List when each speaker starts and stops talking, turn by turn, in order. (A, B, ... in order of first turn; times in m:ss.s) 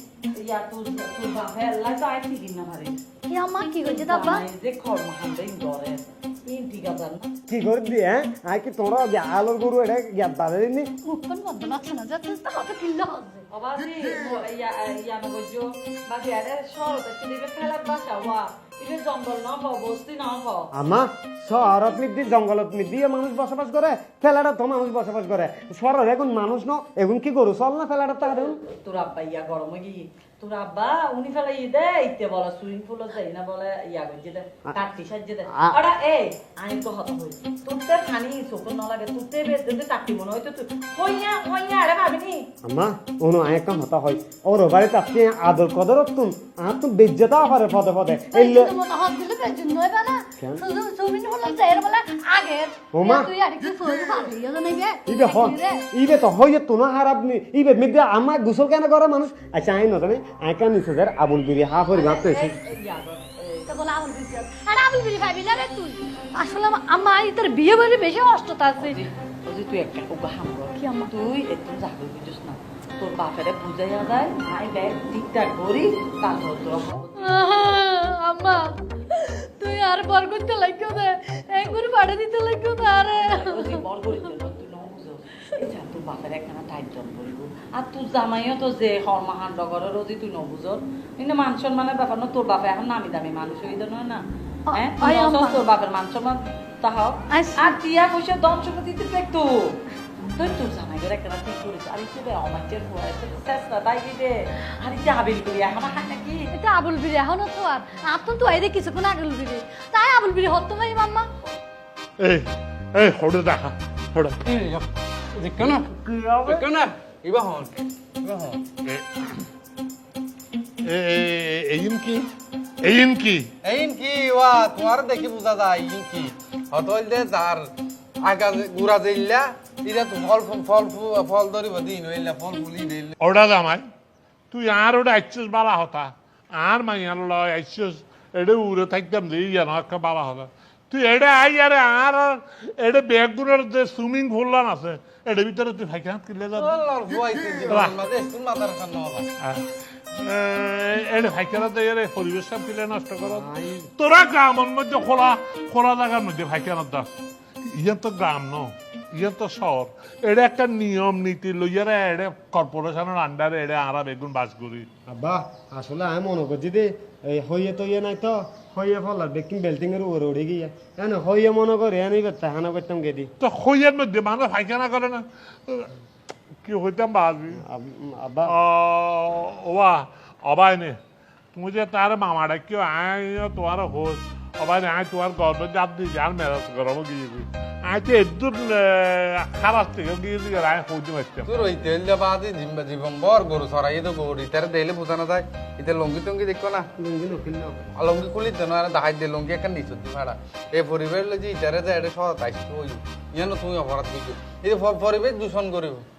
0:00.3-0:03.0 A
0:03.3-0:04.4 B
0:03.8-0:07.3 A
0:07.5-0:10.9 C
0:11.0-0:13.4 B
0:13.5-0:20.7 A
0:20.7-0:28.6 C
0:28.5-0:42.5 A
0:35.5-0:35.8 C
0:42.6-0:48.7 C
0:48.3-0:55.8 B
0:50.4-0:50.6 C
0:52.9-0:53.3 C
0:55.0-1:02.6 C
1:01.9-1:03.7 A
1:03.7-1:09.1 B
1:08.8-1:17.3 A
1:10.8-1:11.1 B
1:17.2-1:23.8 B
1:23.1-1:39.8 A
1:34.7-1:35.6 B
1:37.3-1:37.8 B
1:40.3-1:46.5 A
1:46.5-1:51.3 B
1:52.2-1:54.4 D
1:54.4-1:58.6 E
1:55.6-1:56.6 C
1:58.8-1:59.4 D
2:00.8-2:02.3 D
2:02.8-2:03.5 D
2:03.6-2:13.1 E
2:13.2-2:13.8 D
2:14.5-2:26.8 D
2:26.5-2:29.3 E
2:27.7-2:28.0 D
2:29.4-2:37.1 D
2:33.2-2:33.8 C
2:37.6-2:44.9 D
2:45.1-2:53.3 C
2:53.4-2:55.9 D
2:56.6-2:57.6 D
2:57.5-2:58.5 C
2:58.5-3:01.0 D
3:01.5-3:11.5 D
3:11.4-3:16.9 E
3:17.0-3:17.9 C
3:18.0-3:26.0 E